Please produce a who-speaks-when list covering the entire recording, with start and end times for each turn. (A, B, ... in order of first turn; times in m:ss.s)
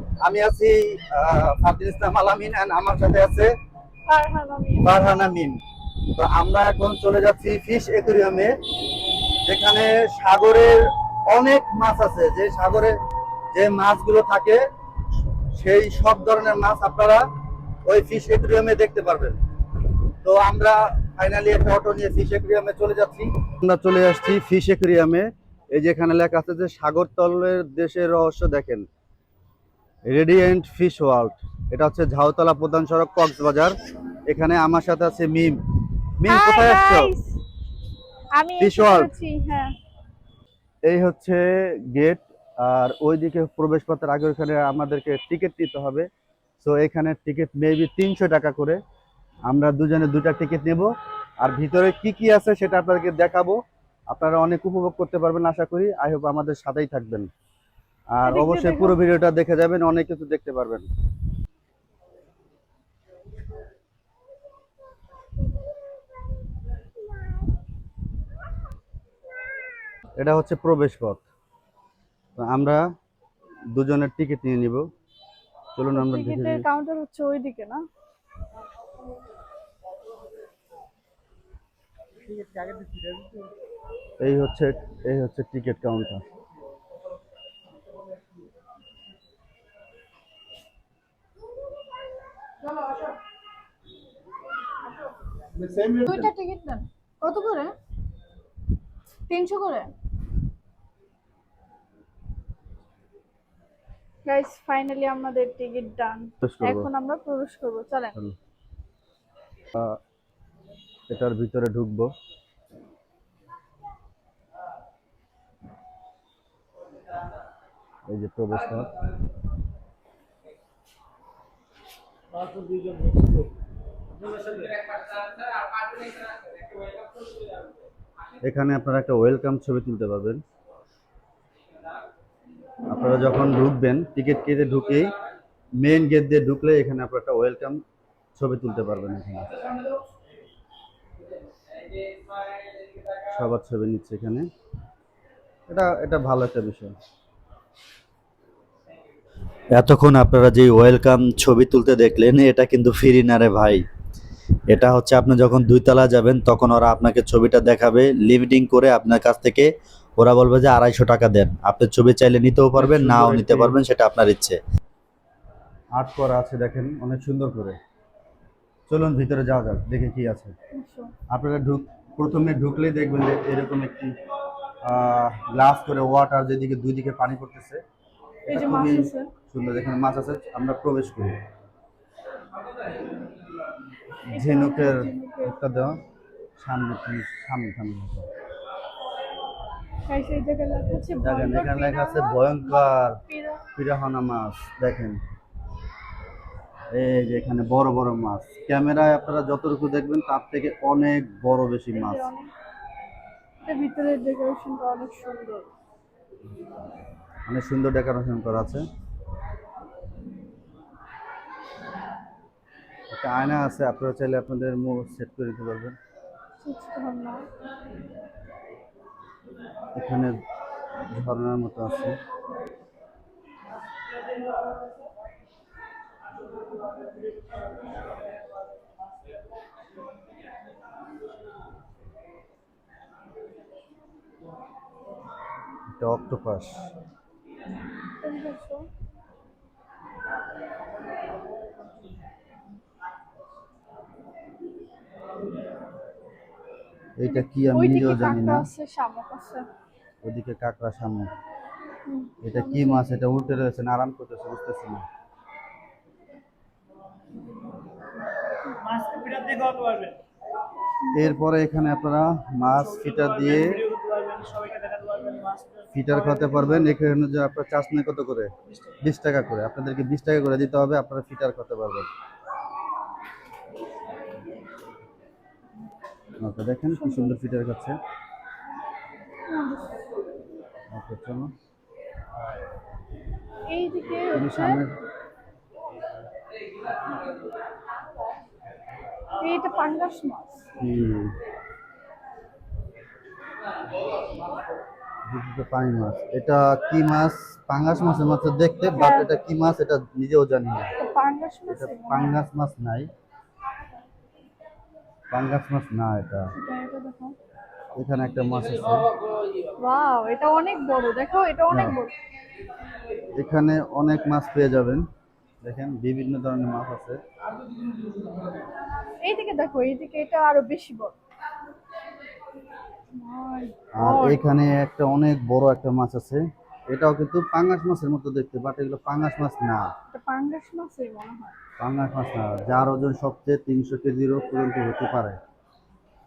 0:00.2-0:03.5 A
0:04.0-0:05.0 B
0:04.8-0:05.6 A
0:06.2-0:08.5 A
0:09.5-0:13.0 A
0:13.5-0:14.6 A
0:15.5-0:17.2 A
0:17.8-0:19.4 A
0:20.2-0:28.8 A
0:30.1-0:33.7 A
0:34.3-0:35.6 A
0:36.2-0:37.1 A
0:36.2-0:37.4 B
0:38.4-0:39.7 B
0:38.6-0:39.1 A
0:40.9-0:46.1 A
0:46.6-0:48.8 A
0:49.5-0:53.6 A
0:54.1-0:57.3 A
0:58.1-1:00.8 A
0:58.2-0:59.0 B
1:10.2-1:11.2 A
1:12.4-1:12.8 A
1:13.7-1:14.8 A
1:15.7-1:16.6 A
1:15.9-1:17.8 B
1:22.4-1:23.2 C
1:24.2-1:26.2 A
1:35.9-1:37.7 B
1:39.3-1:39.9 B
1:44.2-1:48.2 B
1:46.4-1:46.9 A
1:51.1-1:52.1 A
1:58.1-1:58.9 A
2:02.4-2:03.5 C
2:04.2-2:04.7 C
2:08.4-2:10.4 A
2:12.9-2:15.1 A
2:15.8-2:17.8 A
2:18.4-2:19.5 A
2:23.3-2:24.5 A
2:25.7-2:26.9 A
2:29.7-2:33.8 A
2:34.7-2:44.6 A
2:42.8-2:43.8 C
2:46.0-2:47.8 A
2:48.9-2:50.5 A
2:50.7-2:51.1 B
2:51.3-2:54.1 A
2:54.8-2:57.8 A
2:58.5-3:01.4 A
2:58.5-2:59.3 B
3:04.3-3:06.0 A
3:04.3-3:05.9 B
3:06.6-3:08.3 A
3:10.1-3:13.6 B
3:11.2-3:13.2 A
3:13.7-3:15.2 A
3:16.9-3:22.3 A
3:21.9-3:22.5 B
3:23.6-3:25.7 B
3:27.5-3:28.8 A
3:33.1-3:36.0 A
3:36.6-3:37.4 B
3:39.9-3:40.3 A
3:41.1-3:42.2 A
3:56.0-3:56.9 A
3:58.2-3:58.9 B
4:07.2-4:08.6 A
4:07.2-4:09.7 B
4:10.2-4:11.3 A
4:12.0-4:13.2 B
4:12.4-4:15.0 A
4:18.9-4:20.2 C
4:21.0-4:21.4 B
4:21.1-4:23.8 A
4:23.5-4:25.8 C
4:25.9-4:28.5 A
4:29.0-4:32.1 A
4:36.4-4:37.9 A
4:36.9-4:37.3 B
4:39.5-4:40.0 B
4:40.9-4:41.5 A
4:43.7-4:44.8 B
4:44.3-4:44.9 A
4:49.4-4:50.6 B
4:50.8-4:51.3 A
4:55.3-5:00.9 A
4:58.9-4:59.3 B
5:01.0-5:02.4 B
5:01.7-5:03.1 A
5:05.3-5:06.5 A
5:06.5-5:07.4 B
5:08.0-5:09.0 A
5:09.8-5:12.1 B
5:11.7-5:12.0 A
5:13.3-5:15.0 A
5:15.6-5:17.2 A
5:19.2-5:21.1 B
5:23.1-5:24.4 B
5:23.9-5:29.8 A
5:30.1-5:31.5 B
5:31.8-5:35.4 A